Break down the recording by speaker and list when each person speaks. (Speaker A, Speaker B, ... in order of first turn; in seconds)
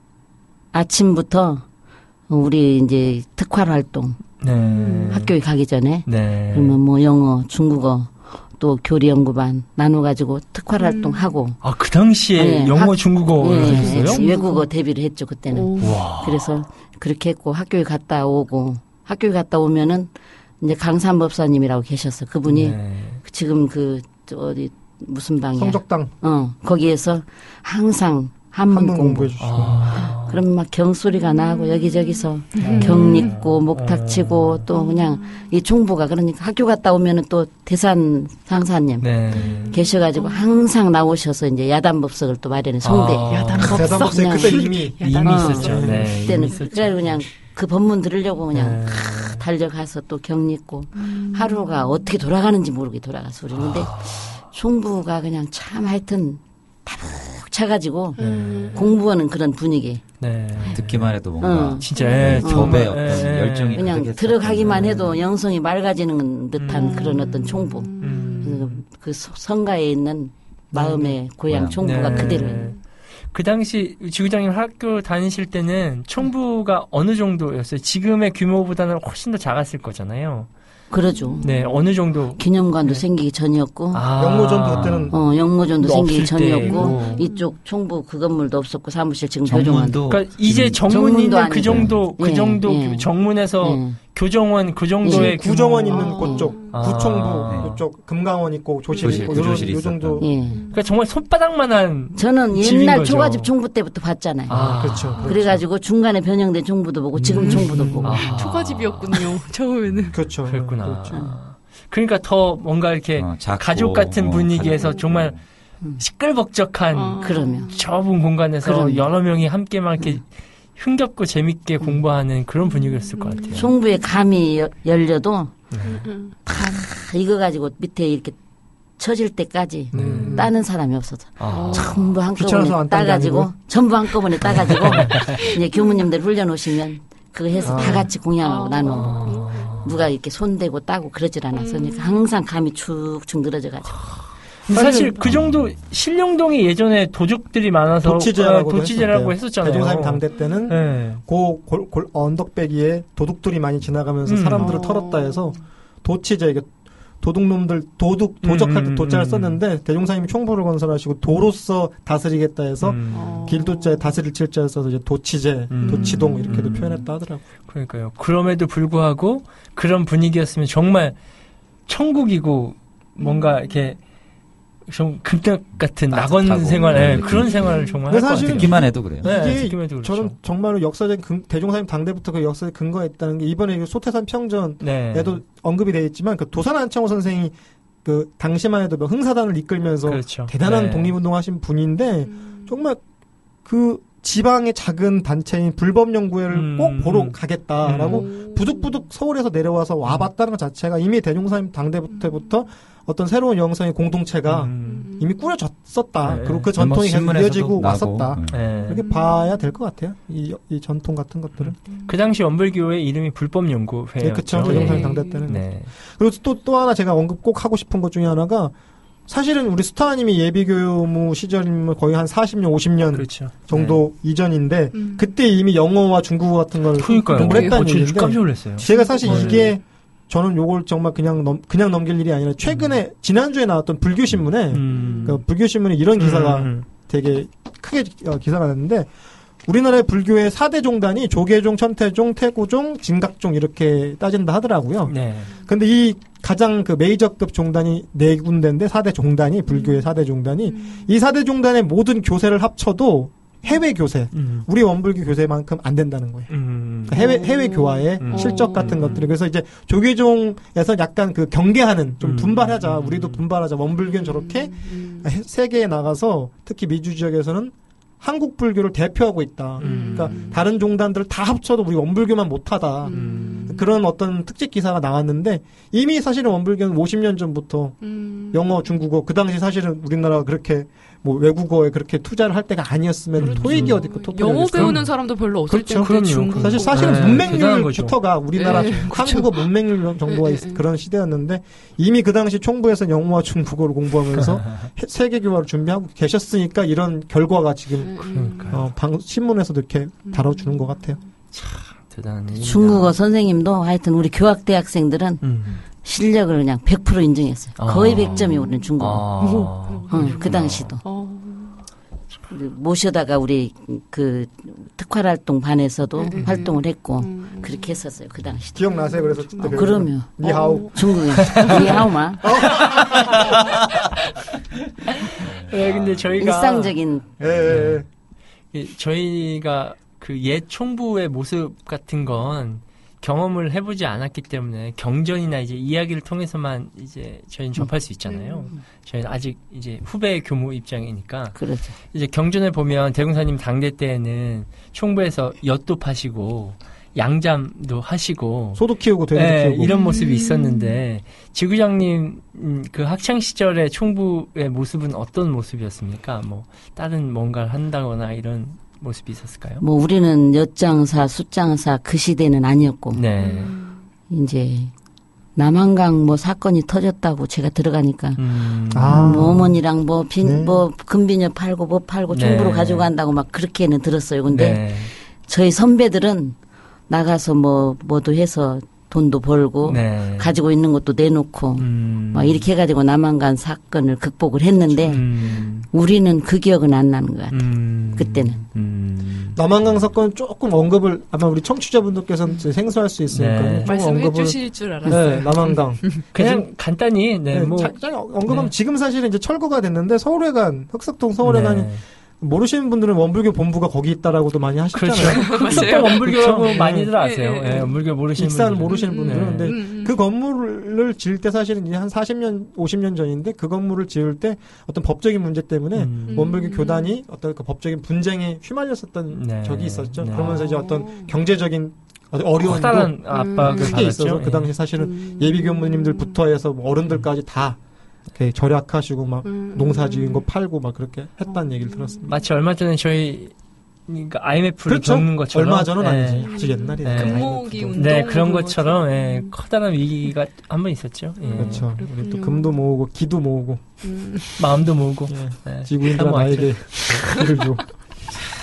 Speaker A: 0.7-1.6, 2.3-4.2, 5.1-11.6, 12.3-20.1, 20.6-29.4, 30.0-44.6, 45.2-60.0, 61.4-61.9, 62.4-63.0, 63.7-72.7, 80.9-81.5, 82.4-84.0, 85.1-90.0, 90.8-94.0, 95.0-95.3, 100.2-100.6, 102.1-108.4, 111.1-111.3, 117.2-117.7, 118.6-119.0, 123.5-125.5, 126.5-128.3, 129.0-144.0, 302.6-305.5, 306.0-309.3, 310.1-311.0, 312.5-318.7, 319.6-322.5, 326.4-327.3, 341.6-341.9, 359.8-363.2, 364.3-364.9, 365.6-368.4, 369.1-376.5, 377.1-385.3, 385.9-388.6
Speaker B: 4.4-5.3, 6.0-6.8, 11.6-14.2, 15.8-16.4, 22.5-23.2, 29.4-30.4, 32.6-34.6, 39.0-39.8, 42.8-44.0, 45.0-47.1, 48.5-49.4, 53.5-54.4, 58.2-58.9, 60.2-61.1, 61.8-64.0, 64.6-65.1, 66.6-67.3, 68.0-68.8, 71.8-72.8, 73.3-80.5, 81.4-83.0, 83.9-85.1, 85.8-87.2, 90.1-96.2, 96.7-97.7, 100.7-103.5, 104.5-105.4, 107.2-109.3, 110.5-115.3, 116.0-123.7, 125.7-126.0, 129.9-130.5, 131.4-132.1, 134.4-135.4, 138.8-139.9, 144.7-151.2, 154.2-154.7, 158.4-159.6, 162.8-163.5, 165.7-167.1, 167.7-171.2, 171.9-174.0, 174.9-180.3, 184.8-185.4, 190.1-191.1, 196.5-198.2, 204.4-205.1, 206.2-206.7, 208.5-209.0, 211.6-215.9, 223.1-224.0, 227.0-229.7, 232.7-233.0, 234.7-235.4, 236.2-236.9, 245.1-245.5, 254.3-254.7, 256.5-257.2, 258.2-259.3, 262.2-263.4, 269.8-270.5, 273.1-273.8, 283.4-284.0, 284.7-285.1, 285.7-289.1, 294.4-294.9, 298.3-298.8, 301.5-303.1, 305.4-305.8, 307.8-310.7, 322.8-323.1, 325.3-326.9, 327.7-328.0, 328.7-341.6, 342.1-359.8, 363.1-363.8, 368.4-369.5, 372.3-373.1, 374.5-375.1, 379.8-380.5, 381.8-382.6, 385.1-385.9, 387.5-389.6, 393.3-393.9, 395.1-395.6, 396.3-398.7, 401.4-402.0, 404.9-409.7, 415.9-416.5, 419.3-420.6, 422.6-424.7, 432.3-433.5, 434.1-436.5, 437.0-441.9, 444.6-447.1
Speaker C: 4.7-5.2, 10.8-11.3, 13.5-14.7, 15.5-16.0, 32.6-33.4, 34.7-35.5, 39.3-40.6, 43.3-46.5, 51.0-52.0, 58.2-59.0, 61.9-62.5, 66.7-68.6, 72.2-72.8, 81.0-81.8, 86.6-87.5, 95.9-96.8, 98.9-99.4, 100.5-100.8, 107.3-110.2, 116.9-117.9, 122.7-123.7, 125.8-126.3, 130.0-130.5, 131.5-131.9, 135.5-136.1, 137.5-139.9, 141.5-142.3, 154.6-155.6, 163.1-164.1, 165.8-166.9, 173.2-173.6, 176.8-178.0, 192.3-192.7, 198.0-199.0, 204.8-205.3, 208.8-209.7, 214.6-215.5, 224.9-225.2, 227.1-227.9, 228.8-229.7, 234.9-235.4, 249.7-250.0, 250.8-251.0, 257.1-259.2, 264.1-265.3, 269.8-270.6, 273.0-273.9, 278.0-278.6, 283.4-287.6, 288.5-289.6, 290.2-290.8, 298.0-298.7, 300.3-301.2, 308.3-308.9, 309.4-311.8, 316.2-318.0, 318.8-321.0, 338.3-338.7, 349.8-351.0, 363.4-364.0, 393.8-396.3, 405.2-408.0, 408.9-410.1, 416.2-417.1, 420.3-421.3, 423.3-424.1, 425.0-426.4, 429.4-430.4, 431.5-432.4, 436.4-439.5, 441.4-442.8, 444.0-444.6, 447.0-447.4
Speaker D: 25.6-26.1, 28.7-29.9, 43.7-46.1, 70.7-71.2, 84.2-85.2, 95.1-100.3, 104.8-105.6, 107.4-108.1, 110.1-111.2, 132.3-133.5, 137.6-138.1, 144.7-145.2, 148.0-156.7, 157.2-167.4, 178.1-193.0, 193.6-211.8, 214.2-218.7, 219.3-239.1, 239.7-278.0, 278.5-285.1, 285.7-301.2, 318.7-323.5, 327.4-328.1, 348.8-349.9, 368.9-369.8, 370.4-370.8, 389.5-396.6, 397.5-407.1, 408.4-427.8, 428.3-432.3, 434.9-438.3, 441.6-443.8, 445.3-447.8
Speaker E: 60.7-65.2, 71.5-72.1, 84.7-85.1, 89.5-91.1, 91.6-91.9, 97.5-97.8, 99.0-100.3, 113.2-115.4, 145.3-145.6, 176.1-177.8, 178.3-179.5, 206.8-208.7, 310.5-310.9, 325.4-326.4, 327.4-327.9